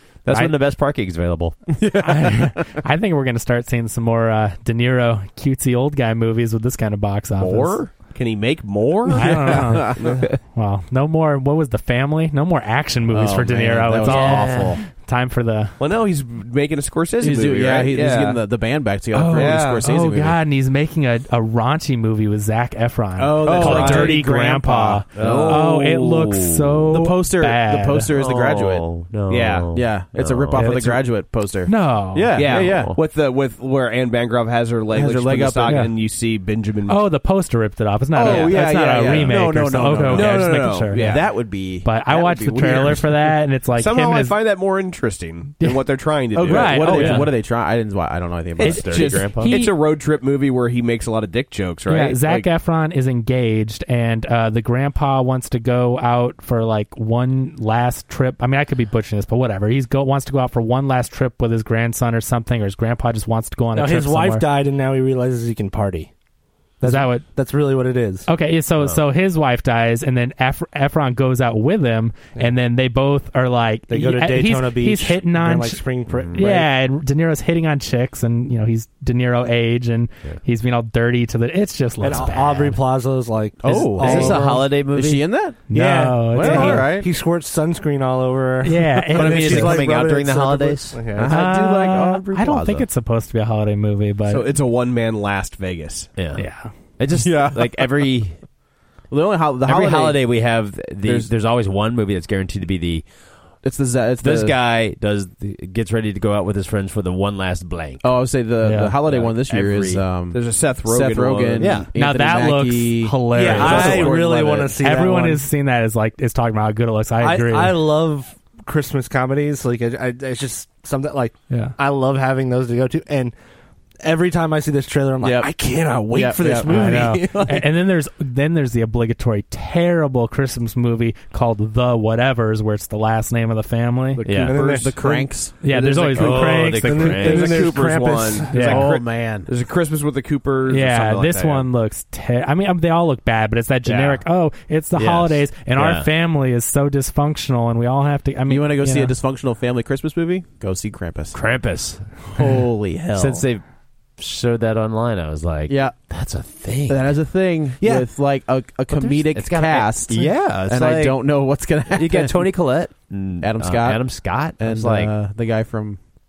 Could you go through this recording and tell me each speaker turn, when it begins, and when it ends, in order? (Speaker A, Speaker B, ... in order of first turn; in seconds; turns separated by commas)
Speaker A: 0.2-1.6, Speaker B: 1.8-2.6, Speaker C: 2.0-7.8, Speaker D: 7.4-10.3, Speaker C: 9.2-10.0, Speaker B: 9.2-10.2, Speaker C: 10.5-15.8, Speaker B: 13.1-14.8, Speaker A: 14.0-14.8, Speaker D: 15.8-18.4, Speaker B: 17.2-20.4, Speaker C: 19.1-28.1, Speaker D: 19.3-19.9, Speaker B: 23.2-26.3, Speaker D: 23.4-24.3, Speaker D: 25.1-25.6, Speaker A: 25.2-27.0, Speaker B: 26.9-29.0, Speaker A: 28.1-30.9, Speaker D: 29.3-29.7, Speaker B: 29.7-33.0, Speaker C: 30.6-32.4, Speaker D: 32.3-37.0, Speaker A: 32.4-33.0, Speaker B: 34.9-35.9, Speaker C: 36.9-41.2, Speaker B: 38.1-43.3, Speaker D: 38.2-39.5, Speaker D: 40.1-41.4, Speaker C: 41.8-44.4, Speaker D: 43.8-47.2, Speaker B: 46.4-49.7, Speaker C: 46.4-47.3, Speaker A: 46.9-47.3, Speaker D: 48.6-52.5, Speaker A: 48.6-49.6, Speaker C: 48.6-49.7, Speaker C: 51.9-64.5, Speaker E: 63.7-66.1, Speaker E: 66.8-68.3, Speaker C: 66.8-67.2, Speaker C: 68.3-82.8, Speaker E: 73.9-76.7, Speaker A: 76.1-76.5, Speaker E: 82.0-84.8, Speaker B: 83.6-87.1, Speaker A: 83.8-85.3, Speaker C: 85.7-86.9, Speaker E: 85.7-91.4, Speaker C: 88.6-89.8, Speaker A: 89.1-91.2, Speaker B: 91.1-92.9, Speaker C: 91.3-94.5, Speaker D: 94.3-96.1, Speaker A: 96.2-98.4, Speaker C: 96.4-96.7, Speaker B: 97.2-97.9, Speaker B: 99.1-101.3, Speaker A: 99.7-103.1, Speaker B: 103.6-104.6, Speaker A: 104.2-108.3, Speaker B: 108.0-114.7, Speaker C: 108.6-109.0, Speaker A: 109.0-110.0, Speaker D: 110.3-111.8, Speaker A: 111.6-111.9, Speaker C: 112.0-114.2, Speaker E: 113.3-115.5, Speaker C: 114.8-117.8, Speaker E: 117.2-123.3, Speaker C: 121.5-121.8, Speaker E: 124.0-127.7, Speaker B: 125.2-127.2, Speaker C: 126.7-134.3, Speaker B: 134.2-136.6, Speaker A: 134.2-134.6, Speaker E: 134.4-135.4, Speaker D: 134.5-134.9, Speaker C: 135.6-137.2, Speaker D: 135.7-141.7, Speaker A: 136.1-137.7, Speaker E: 136.8-138.7, Speaker C: 138.5-138.9, Speaker B: 138.5-139.5, Speaker C: 140.7-149.2, Speaker D: 143.8-144.2, Speaker A: 144.9-146.1, Speaker B: 148.5-151.4, Speaker A: 151.3-152.5, Speaker B: 152.3-153.4, Speaker A: 153.1-153.6, Speaker A: 154.2-157.2, Speaker B: 155.7-156.0, Speaker B: 156.9-162.4, Speaker E: 157.8-158.1, Speaker A: 158.9-161.3, Speaker A: 161.9-165.1, Speaker B: 163.4-166.0